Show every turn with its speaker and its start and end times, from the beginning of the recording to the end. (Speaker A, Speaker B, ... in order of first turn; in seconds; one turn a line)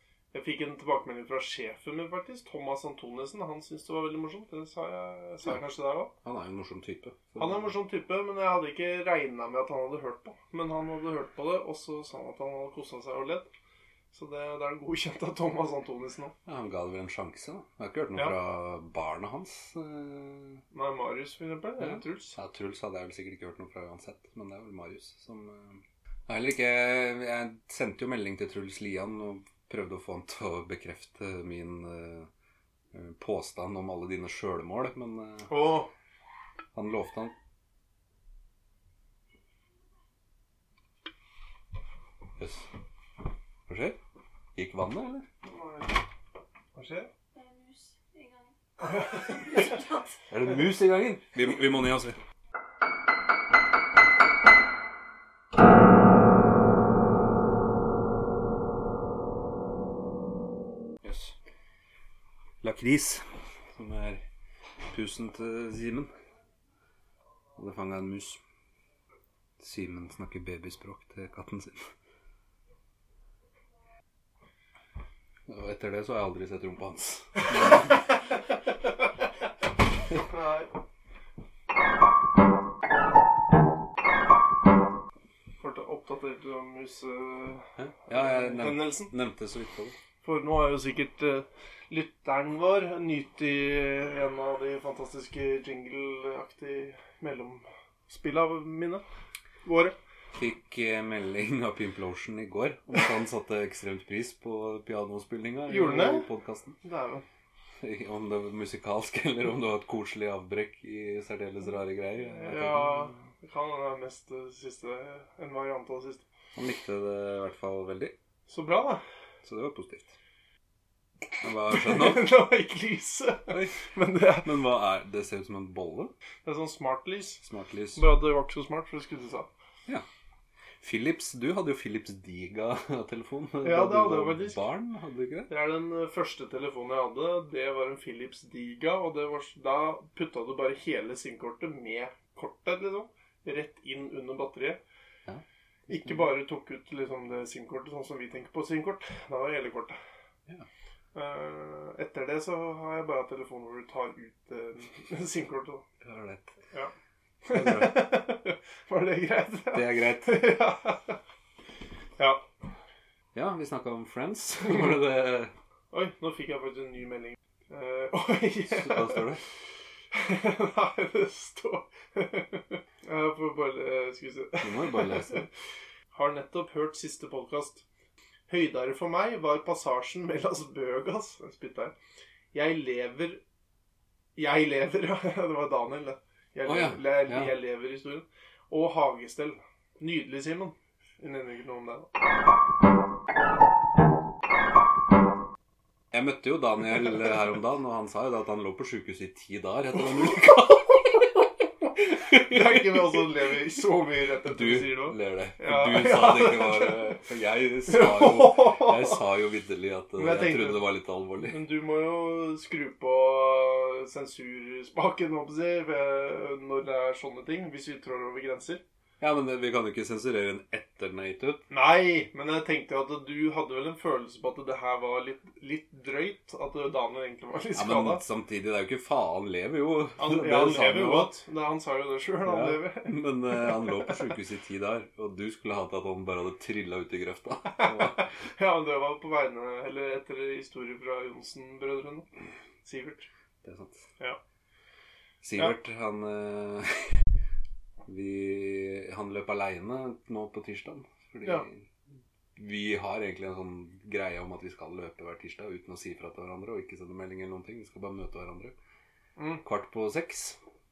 Speaker A: 0.3-6.1
Speaker B: 6.2-7.7
Speaker A: 7.4-13.5
Speaker A: 14.1-16.3
Speaker B: 16.4-20.6
Speaker A: 20.7-22.4
Speaker B: 21.8-32.3
Speaker B: 32.9-35.6
Speaker A: 35.5-35.9
Speaker B: 36.7-37.3
Speaker B: 42.4-42.7
Speaker B: 43.7-44.0
Speaker B: 44.5-45.2
Speaker A: 45.4-46.0
Speaker A: 46.7-47.1
Speaker C: 47.3-50.2
Speaker A: 48.9-49.7
Speaker B: 50.3-52.2
Speaker B: 61.0-61.3
Speaker B: 62.6-64.2
Speaker B: 64.9-66.1
Speaker B: 67.5-68.4
Speaker B: 69.6-71.9
Speaker B: 75.5-78.0
Speaker A: 80.2-80.7
Speaker A: 85.6-89.1
Speaker B: 87.8-90.0
Speaker A: 90.2-99.0
Speaker A: 99.6-100.0
Speaker B: 100.3-106.8
Speaker A: 105.7-106.3
Speaker A: 106.8-107.2
Speaker B: 107.8-113.2
Speaker A: 112.2-116.2
Speaker B: 116.5-118.1
Speaker A: 118.5-119.0
Speaker B: 119.4-120.1
Speaker B: 121.4-122.3
Speaker A: 121.7-124.5
Speaker B: 123.5-126.1
Speaker A: 126.4-127.4
Speaker B: 127.4-128.0
Speaker A: 128.0-129.5
Speaker B: 130.8-135.5
Speaker A: 133.6-134.6
Speaker A: 135.5-144.8
Speaker B: 145.3-146.2
Speaker A: 145.9-150.0
Speaker A: 151.1-155.8
Speaker B: 156.0-156.6
Speaker A: 157.4-161.2
Speaker B: 157.5-158.1
Speaker B: 159.7-160.4
Speaker A: 162.2-162.4
Speaker B: 163.3-165.5
Speaker A: 165.9-169.2
Speaker B: 168.7-169.4
Speaker A: 170.1-175.5
Speaker B: 174.6-175.5
Speaker A: 176.1-177.8
Speaker A: 178.5-181.9
Speaker A: 182.5-183.4
Speaker A: 184.3-192.1
Speaker B: 186.6-187.5
Speaker B: 196.1-201.3
Speaker B: 202.0-203.2
Speaker A: 202.2-207.1
Speaker B: 204.4-211.6
Speaker A: 207.9-209.2
Speaker A: 210.2-210.8
Speaker A: 211.4-218.8
Speaker B: 219.2-221.6
Speaker A: 221.7-228.2
Speaker B: 227.7-231.3
Speaker A: 230.2-234.2
Speaker B: 232.4-238.3
Speaker A: 237.8-242.3
Speaker A: 242.8-243.3
Speaker B: 243.6-244.1
Speaker B: 245.4-247.2
Speaker B: 248.1-251.8
Speaker B: 252.6-258.7
Speaker A: 259.4-259.6
Speaker B: 259.6-260.6